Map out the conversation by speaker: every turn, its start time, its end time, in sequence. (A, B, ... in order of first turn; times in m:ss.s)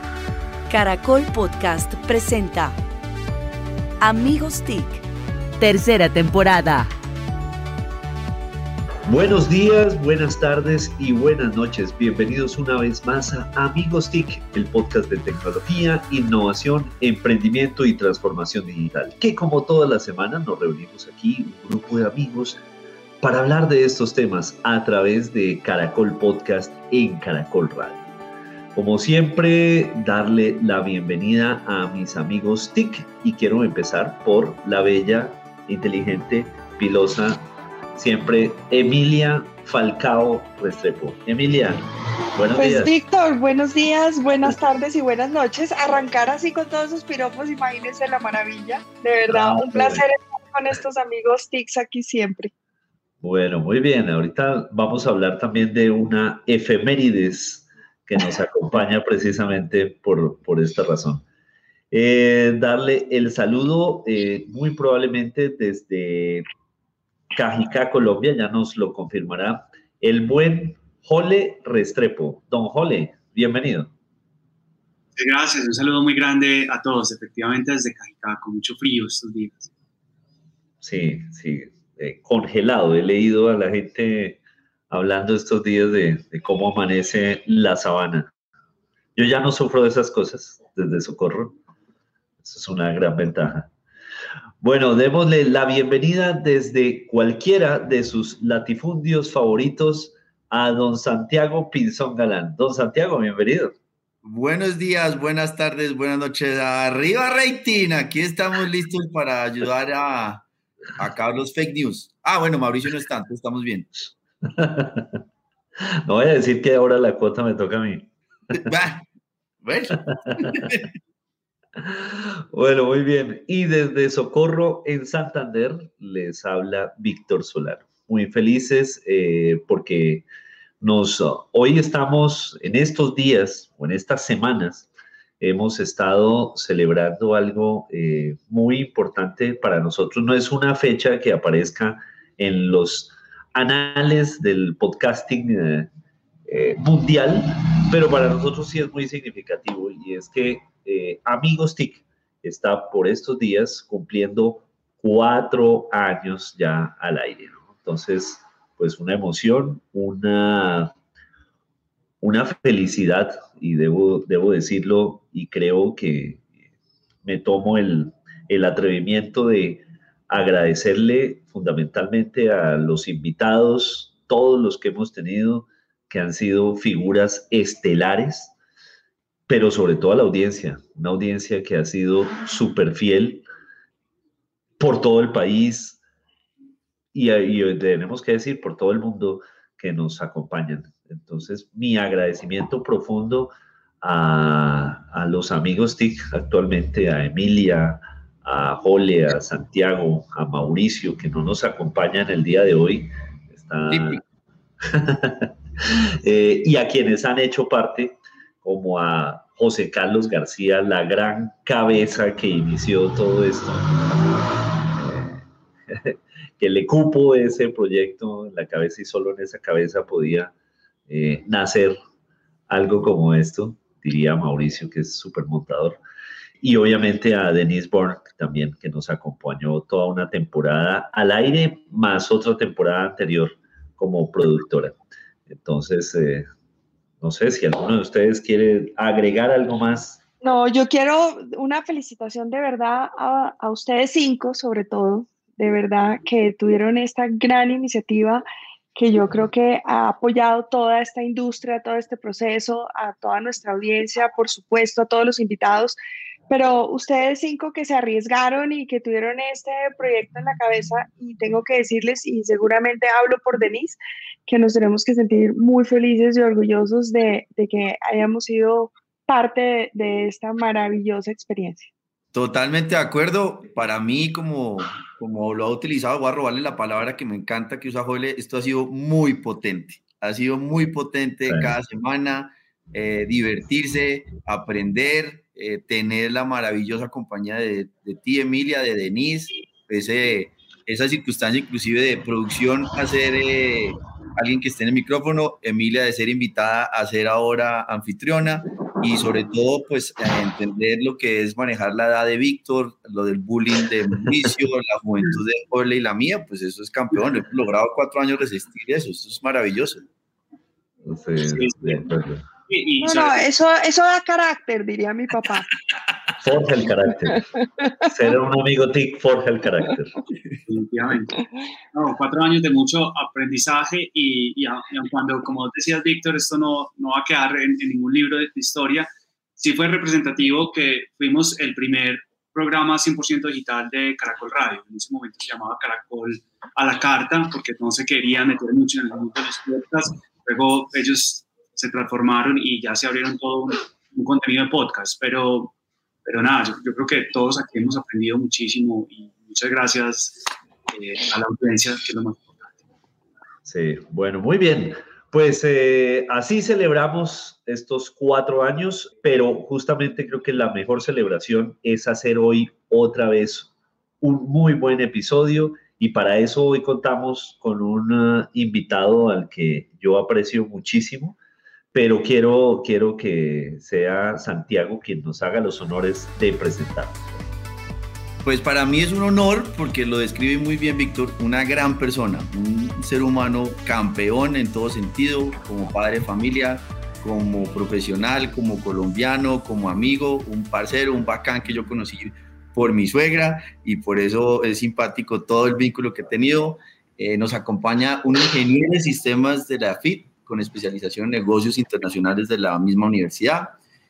0:00.7-0:02.8 A
0:04.0-0:05.0 A
0:05.6-0:06.9 A
0:09.1-0:22.6 B
0:23.2-0:28.1 B
0:28.8-0:37.4 B
0:38.0-0:42.9 B
0:42.6-0:52.5 C
0:49.3-0:50.0 B
0:53.2-1:01.2 B
1:01.9-1:06.4 B
1:07.3-1:13.9 B
1:15.2-1:19.7 D
1:20.8-1:28.3 B
1:29.2-1:31.6 B
1:32.4-1:33.7 B
1:34.6-1:43.7 B
1:44.2-1:53.9 E
1:54.4-1:55.2 B
1:55.9-1:58.1 B
1:58.6-1:59.0 E
1:59.6-2:00.9 E
2:01.8-2:10.2 B
2:10.8-2:14.9 B
2:15.4-2:25.9 B
2:26.5-2:40.9 B
2:42.2-2:46.5 B
2:47.2-2:58.5 B
2:59.5-3:03.4 B
3:04.8-3:06.0 B
3:07.1-3:13.5 B
3:14.0-3:24.2 B
3:23.9-3:24.2 E
3:24.8-3:40.5 B
3:41.1-3:42.0 B
3:42.7-3:46.0 B
3:46.6-3:55.0 B
3:55.5-3:56.5 B
3:57.2-4:00.2 B
4:00.4-4:08.4 C
4:09.0-4:16.0 C
4:16.5-4:31.9 C
4:32.3-5:10.0 E
4:41.5-4:41.7 B
5:11.0-5:12.4 B
5:11.5-5:12.0 D
5:12.7-5:13.4 D
5:13.0-5:15.7 C
5:16.4-5:17.4 B
5:17.4-5:18.1 C
5:18.1-5:20.1 B
5:20.7-5:21.4 D
5:21.9-5:52.8 D
5:53.6-6:03.7 B
6:04.2-6:11.4 B
6:11.9-6:17.4 B
6:18.4-6:43.8 E